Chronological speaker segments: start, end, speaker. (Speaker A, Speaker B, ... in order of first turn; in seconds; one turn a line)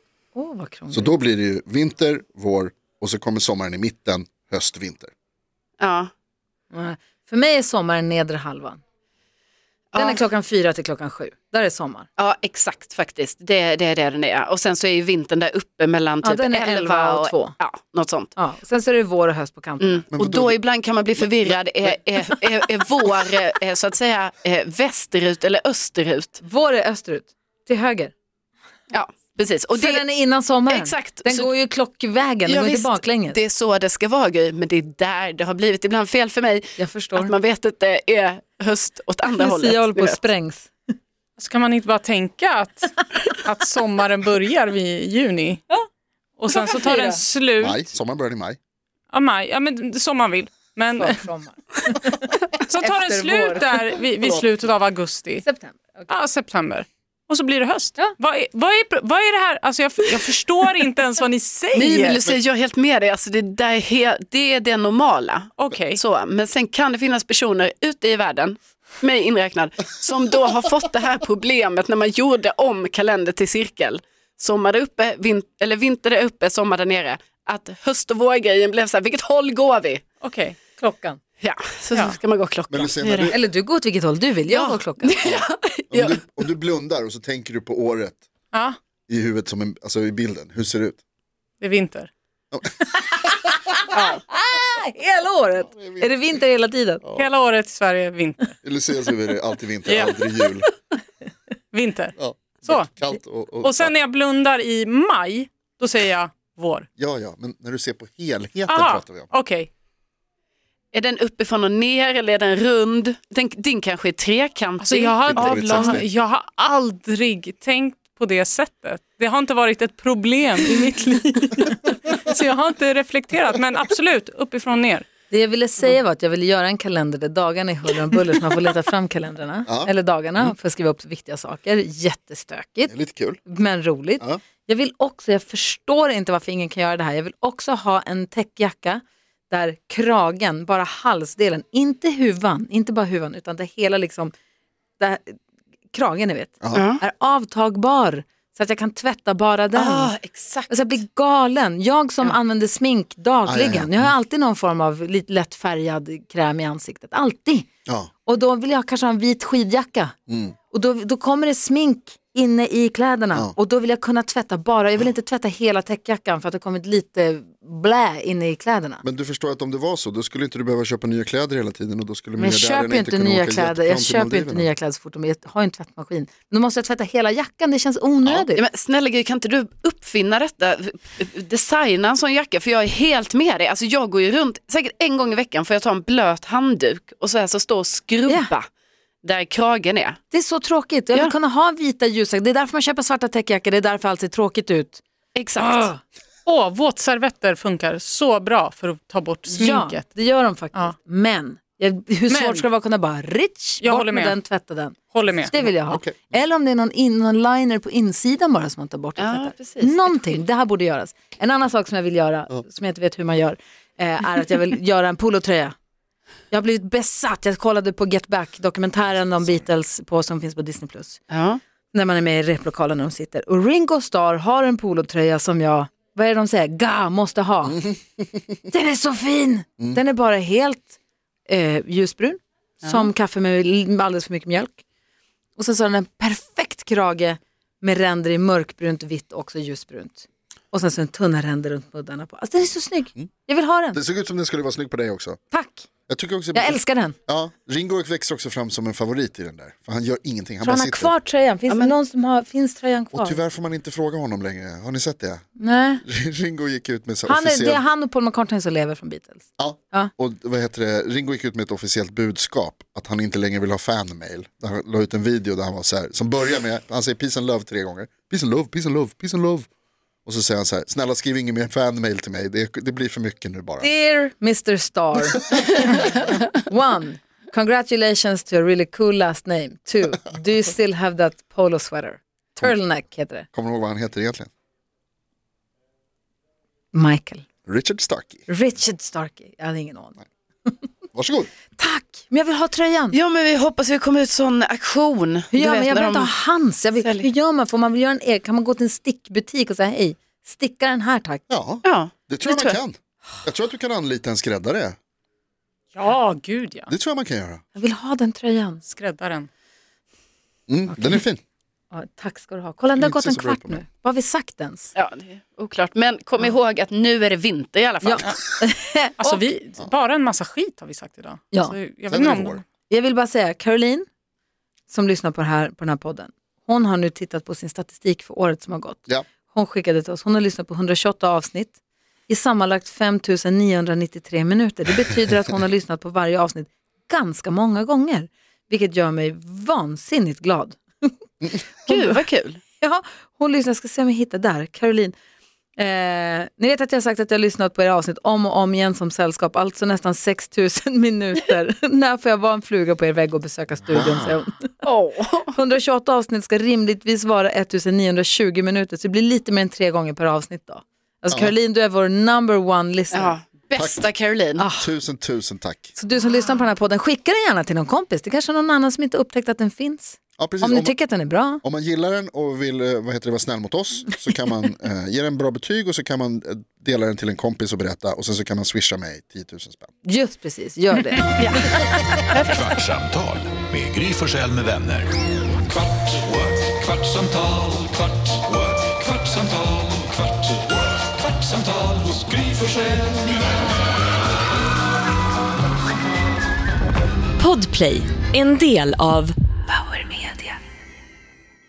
Speaker A: 0.3-1.1
Speaker B: 0.9-5.1
Speaker C: 5.8-6.1
Speaker A: 6.7-8.8
Speaker C: 9.9-10.2
Speaker A: 9.9-12.1
Speaker C: 12.2-18.3
Speaker A: 16.2-17.6
Speaker A: 18.4-20.0
Speaker C: 19.8-26.4
Speaker B: 20.1-20.6
Speaker B: 21.1-21.9
Speaker A: 26.4-28.1
Speaker C: 28.9-30.0
Speaker A: 29.7-33.4
Speaker C: 30.7-31.5
Speaker C: 32.5-40.2
Speaker A: 36.8-37.3
Speaker A: 39.3-40.7
Speaker D: 41.4-45.6
Speaker D: 46.4-47.8
Speaker A: 46.5-47.2
Speaker B: 47.6-48.6
Speaker D: 49.1-51.2
Speaker A: 51.0-53.7
Speaker D: 52.6-55.4
Speaker A: 55.4-56.1
Speaker D: 56.1-62.2
Speaker C: 61.7-80.0
Speaker D: 65.6-66.0
Speaker D: 80.2-80.5
Speaker A: 80.8-81.2
Speaker C: 81.4-83.3
Speaker B: 82.7-83.4
Speaker A: 83.3-85.2
Speaker C: 84.5-86.2
Speaker B: 85.2-88.2
Speaker B: 89.1-91.0
Speaker D: 91.6-92.1
Speaker A: 92.8-97.0
Speaker C: 93.9-94.2
Speaker B: 95.7-96.3
Speaker B: 97.0-97.3
Speaker D: 97.1-98.5
Speaker B: 98.6-100.7
Speaker D: 99.8-100.4
Speaker D: 101.7-102.9
Speaker B: 102.2-103.9
Speaker D: 103.6-106.9
Speaker B: 107.0-109.3
Speaker D: 108.7-109.7
Speaker C: 110.9-116.0
Speaker D: 114.8-125.1
Speaker B: 115.3-116.1
Speaker A: 125.3-132.9
Speaker B: 129.7-130.5
Speaker B: 132.9-133.4
Speaker A: 133.4-144.3
Speaker A: 145.0-145.4
Speaker A: 145.9-150.1
Speaker C: 146.7-147.0
Speaker C: 149.7-150.9
Speaker A: 150.7-157.7
Speaker B: 153.4-154.1
Speaker B: 157.8-158.1
Speaker A: 158.2-160.1
Speaker B: 160.3-160.6
Speaker A: 160.7-169.0
Speaker B: 169.0-174.7
Speaker A: 172.4-178.6
Speaker C: 178.5-188.7
Speaker C: 189.2-190.2
Speaker A: 190.3-195.0
Speaker C: 195.3-195.9
Speaker A: 195.6-196.0
Speaker D: 196.4-200.1
Speaker A: 199.5-215.7
Speaker D: 202.3-202.7
Speaker D: 203.8-204.4
Speaker D: 205.1-205.6
Speaker B: 205.6-206.3
Speaker C: 209.2-210.4
Speaker A: 216.5-221.2
Speaker C: 221.3-221.6
Speaker A: 221.9-227.8
Speaker B: 227.7-228.4
Speaker A: 228.7-234.8
Speaker A: 235.6-244.0
Speaker B: 243.9-245.4
Speaker A: 245.5-245.9
Speaker B: 246.1-251.1
Speaker A: 246.5-247.2
Speaker A: 250.6-253.4
Speaker C: 251.7-251.9
Speaker B: 253.1-255.4
Speaker A: 255.6-256.0
Speaker B: 256.0-257.8
Speaker A: 257.2-260.1
Speaker B: 259.6-269.7
Speaker B: 270.2-273.9
Speaker A: 273.8-283.5
Speaker B: 283.5-284.5
Speaker A: 286.9-287.4
Speaker B: 287.7-288.4
Speaker A: 288.5-290.2
Speaker B: 291.1-291.5
Speaker A: 291.7-293.1
Speaker C: 293.1-296.3
Speaker A: 295.5-301.4
Speaker C: 297.0-297.3
Speaker B: 301.5-305.0
Speaker C: 301.8-302.8
Speaker D: 305.9-306.9
Speaker B: 306.9-307.6
Speaker A: 307.7-308.8
Speaker D: 308.8-309.5
Speaker B: 310.7-311.4
Speaker A: 310.9-311.2
Speaker A: 311.9-314.9
Speaker B: 312.9-313.8
Speaker C: 314.9-318.4
Speaker A: 318.0-319.4
Speaker D: 319.2-322.6
Speaker B: 322.1-322.6
Speaker A: 322.9-324.1
Speaker A: 324.9-331.7
Speaker A: 332.3-341.1
Speaker A: 341.8-342.2
Speaker C: 341.9-342.6
Speaker A: 342.8-345.1
Speaker A: 345.8-354.7
Speaker B: 353.9-354.3
Speaker C: 354.8-355.5
Speaker A: 355.5-363.3
Speaker C: 363.1-364.6
Speaker B: 363.8-364.1
Speaker A: 364.6-364.9
Speaker B: 364.7-365.9
Speaker A: 365.9-371.6
Speaker B: 370.4-370.9
Speaker B: 371.6-379.9
Speaker A: 380.0-381.9
Speaker C: 381.4-381.7
Speaker C: 382.3-382.8
Speaker E: 382.4-385.1
Speaker E: 385.7-393.3
Speaker F: 397.4-400.5